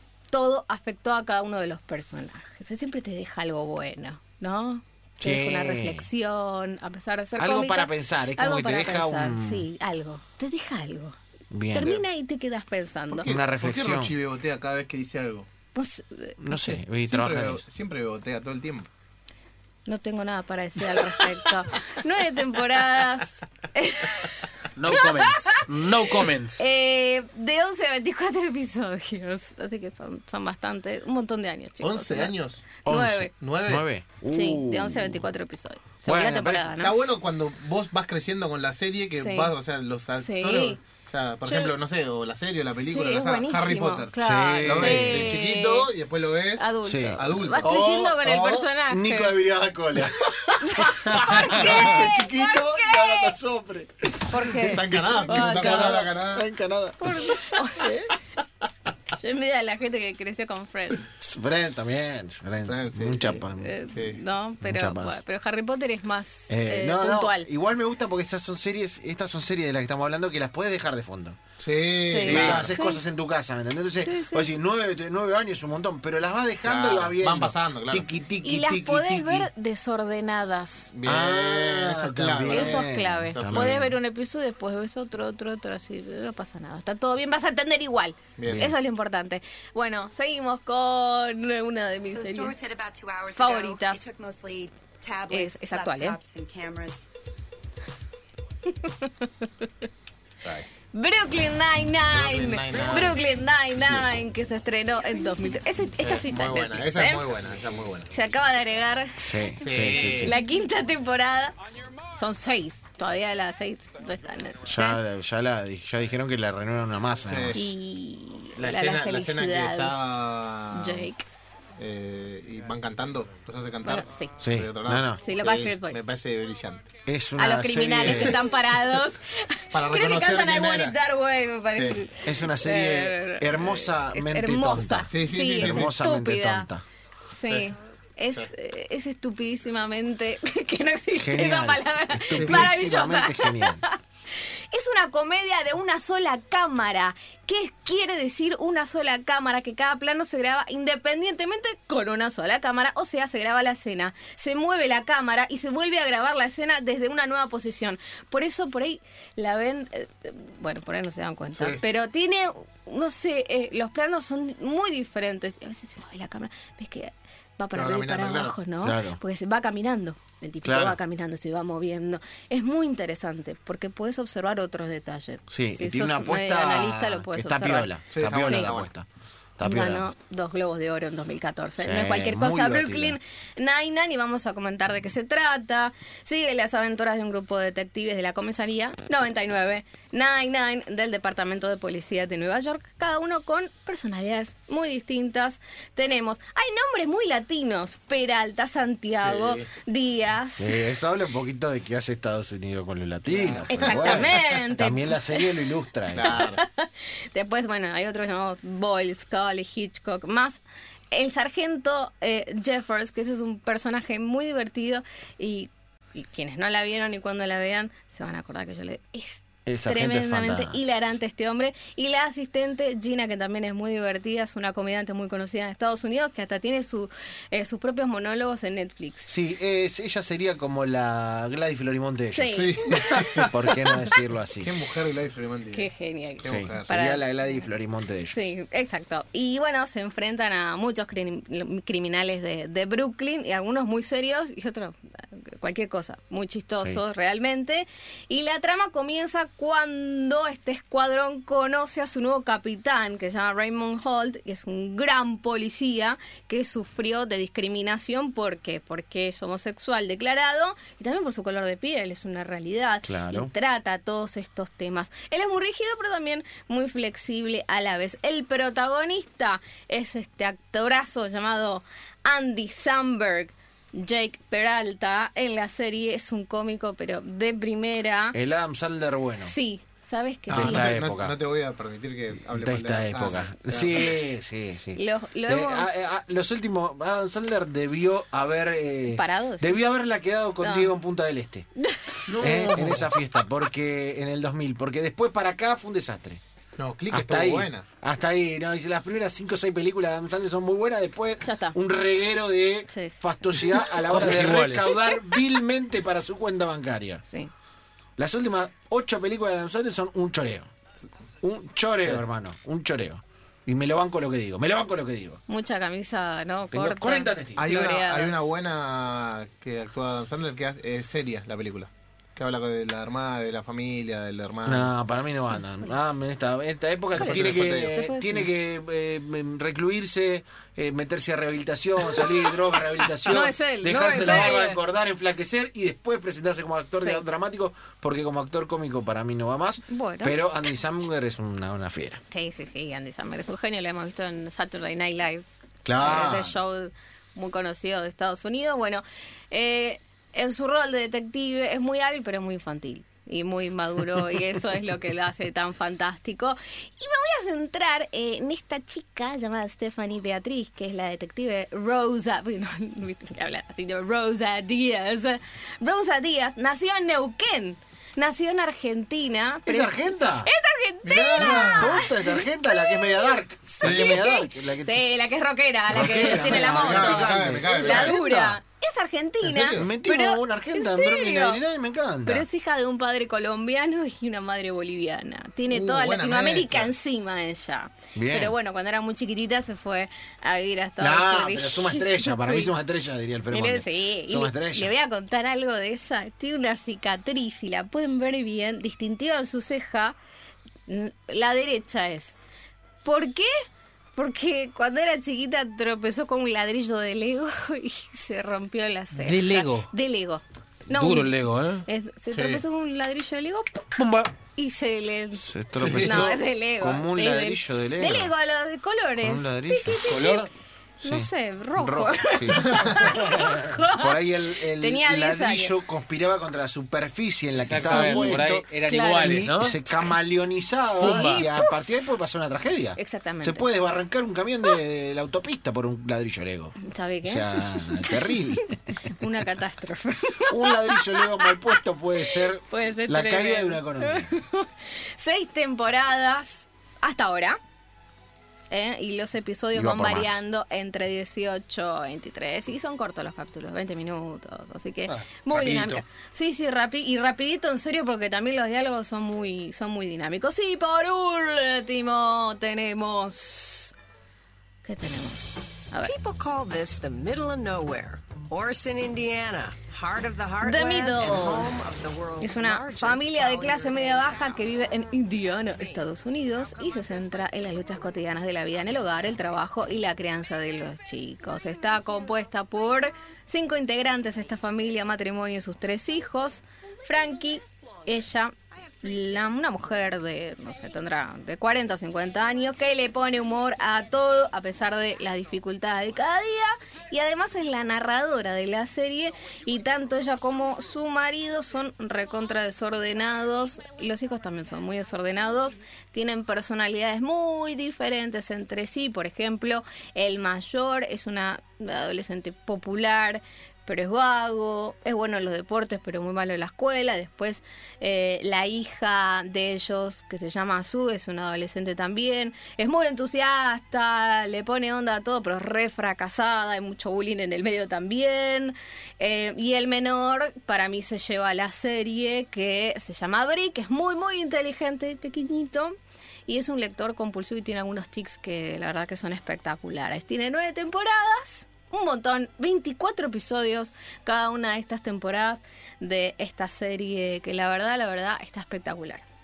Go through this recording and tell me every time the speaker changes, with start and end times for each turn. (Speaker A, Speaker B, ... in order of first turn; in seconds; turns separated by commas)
Speaker A: 0.3-11.2, Speaker B: 5.2-6.1, Speaker B: 7.4-9.7, Speaker B: 11.5-12.1, Speaker A: 11.7-13.3, Speaker B: 13.2-14.2, Speaker C: 13.2-15.5, Speaker A: 15.8-16.4, Speaker B: 16.4-17.6, Speaker C: 16.5-18.9, Speaker A: 19.9-33.3, Speaker D: 24.8-26.6, Speaker C: 31.8-32.8, Speaker B: 32.9-35.2, Speaker C: 33.3-33.9, Speaker A: 34.3-36.9, Speaker B: 36.0-36.8, Speaker C: 36.8-48.7, Speaker A: 39.2-39.5, Speaker A: 40.2-40.8, Speaker A: 41.5-41.7, Speaker A: 42.8-45.9, Speaker B: 44.2-45.4, Speaker A: 46.6-49.4, Speaker B: 46.9-54.5, Speaker A: 50.6-53.4, Speaker A: 54.3-56.1, Speaker C: 54.5-56.5, Speaker B: 55.2-58.1, Speaker A: 57.0-57.9, Speaker A: 59.1-61.1, Speaker B: 61.2-63.8, Speaker C: 62.7-64.2, Speaker A: 63.5-67.5, Speaker B: 64.6-65.2, Speaker B: 66.5-71.4, Speaker C: 71.6-72.8, Speaker A: 72.1-73.0, Speaker B: 72.2-79.5, Speaker A: 74.0-74.5, Speaker C: 76.6-78.1, Speaker A: 78.4-80.9, Speaker C: 80.9-83.9, Speaker B: 81.0-84.0, Speaker A: 82.5-92.6, Speaker C: 88.4-88.8, Speaker B: 88.5-88.7, Speaker E: 92.1-97.1, Speaker A: 93.3-94.0, Speaker A: 95.3-96.2, Speaker A: 98.7-99.7, Speaker A: 100.9-107.3, Speaker C: 102.1-103.2, Speaker B: 103.8-104.1, Speaker C: 106.0-108.1, Speaker A: 108.1-111.5, Speaker B: 109.2-110.4, Speaker C: 109.6-110.4, Speaker A: 112.1-115.0, Speaker B: 114.7-117.7, Speaker C: 117.2-117.7, Speaker A: 117.5-120.0, Speaker C: 118.6-121.1, Speaker A: 120.7-121.2, Speaker C: 121.8-126.9, Speaker A: 123.8-124.4, Speaker B: 124.4-125.2, Speaker A: 125.2-126.0, Speaker B: 127.1-128.5, Speaker A: 127.4-136.7, Speaker C: 128.0-128.5, Speaker C: 129.7-131.0, Speaker C: 131.7-132.0, Speaker B: 132.2-136.8, Speaker C: 135.1-135.9, Speaker A: 137.3-144.0, Speaker B: 141.2-143.8, Speaker C: 142.3-142.7, Speaker A: 144.7-178.7, Speaker C: 167.7-168.6, Speaker B: 168.8-169.2, Speaker B: 170.6-171.0, Speaker B: 175.5-179.1, Speaker C: 178.1-178.9, Speaker B: 179.6-180.1, Speaker A: 179.6-200.8, Speaker B: 181.8-183.2, Speaker C: 199.1-199.7, Speaker B: 200.6-206.4, Speaker C: 203.3-204.4, Speaker A: 203.7-205.6, Speaker C: 206.1-206.6, Speaker A: 206.2-229.3, Speaker B: 219.7-220.8, Speaker B: 229.3-232.6, Speaker A: 232.3-233.5, Speaker C: 232.5-233.5, Speaker B: 233.4-234.7, Speaker C: 234.6-236.9, Speaker A: 235.7-237.6, Speaker B: 236.4-238.5, Speaker A: 238.3-278.4, Speaker B: 246.8-247.0, Speaker B: 263.0-263.5, Speaker B: 278.3-279.6, Speaker A: 279.4-280.9, Speaker C: 280.5-284.2, Speaker B: 280.5-281.4, Speaker B: 282.5-291.7, Speaker A: 285.0-286.0, Speaker A: 289.1-289.8, Speaker A: 290.6-290.9, Speaker A: 291.8-292.3, Speaker C: 292.3-293.1, Speaker B: 292.3-296.4, Speaker C: 296.8-297.9, Speaker B: 297.1-307.2, Speaker A: 301.4-301.8, Speaker A: 302.9-304.0, Speaker D: 304.1-304.9, Speaker B: 308.2-310.7, Speaker B: 311.4-315.4, Speaker A: 315.5-318.3, Speaker B: 316.7-317.7, Speaker C: 317.6-324.9, Speaker B: 324.6-342.2, Speaker C: 327.1-328.0, Speaker A: 327.2-328.5, Speaker A: 333.3-334.8, Speaker A: 339.9-340.4, Speaker A: 342.3-345.4, Speaker B: 345.9-346.6, Speaker A: 346.0-381.6, Speaker B: 369.7-370.5, Speaker C: 371.0-372.1, Speaker B: 371.4-375.1, Speaker C: 373.8-374.2, Speaker B: 375.9-378.6, Speaker C: 375.9-378.2, Speaker C: 379.4-379.9, Speaker B: 379.7-382.5, Speaker A: 382.2-392.7, Speaker C: 385.7-386.9, Speaker B: 388.1-388.6, Speaker B: 391.0-394.9, Speaker A: 393.5-400.2, Speaker A: 400.9-402.4, Speaker A: 403.1-403.6, Speaker A: 404.2-411.3, Speaker D: 409.1-409.9, Speaker D: 410.9-411.9, Speaker A: 411.9-413.9, Speaker C: 412.3-412.6, Speaker D: 414.0-414.3, Speaker A: 414.6-420.5, Speaker B: 415.4-418.3, Speaker C: 415.8-416.4, Speaker B: 419.2-420.2, Speaker D: 420.1-420.5, Speaker A: 421.0-425.7, Speaker B: 421.0-439.2, Speaker C: 422.5-423.2, Speaker D: 427.7-429.8, Speaker A: 427.8-429.5, Speaker D: 431.0-431.5, Speaker A: 431.0-431.8, Speaker A: 433.0-433.7, Speaker A: 436.8-447.6, Speaker B: 440.5-444.3, Speaker A: 448.7-463.9, Speaker B: 449.7-450.4, Speaker D: 455.1-456.0, Speaker A: 464.9-466.1, Speaker F: 466.0-474.4, Speaker A: 470.6-471.7, Speaker A: 472.4-536.0, Speaker A: 536.5-549.2